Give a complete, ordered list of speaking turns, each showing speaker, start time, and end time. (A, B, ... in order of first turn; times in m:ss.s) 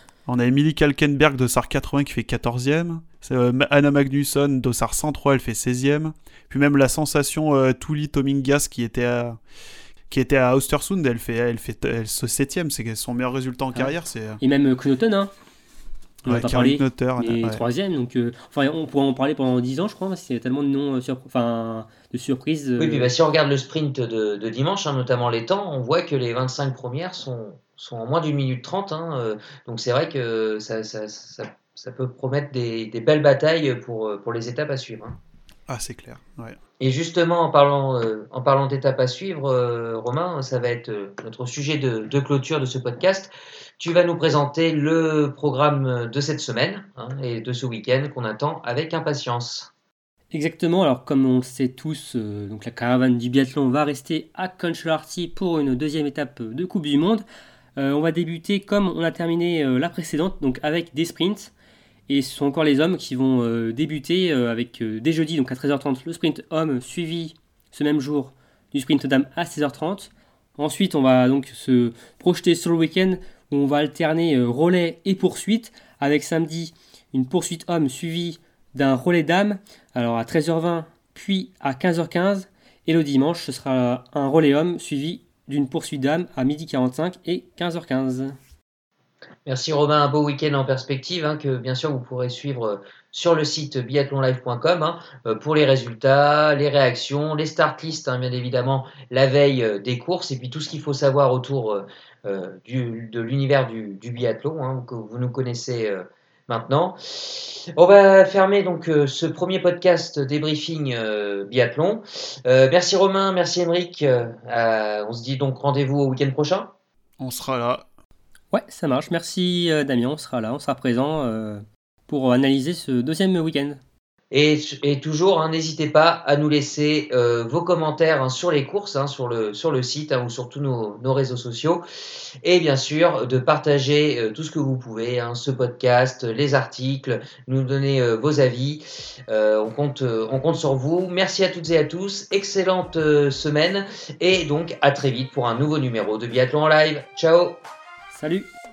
0:00.3-0:09.4 A
0:10.1-0:14.4 A
0:13.7-0:15.3 B
0:16.2-0:23.1 B
0:16.3-0:17.6 A
0:22.8-0:35.2 C
0:35.7-0:36.6 A
0:36.8-0:49.7 C
0:50.3-0:57.2 B
0:57.8-1:01.5 B
1:02.1-1:28.4 B
1:29.5-1:56.7 C
1:57.2-1:57.8 A
1:58.5-2:03.8 B
2:04.3-2:11.8 C
2:12.4-2:27.6 C
2:28.1-2:28.5 B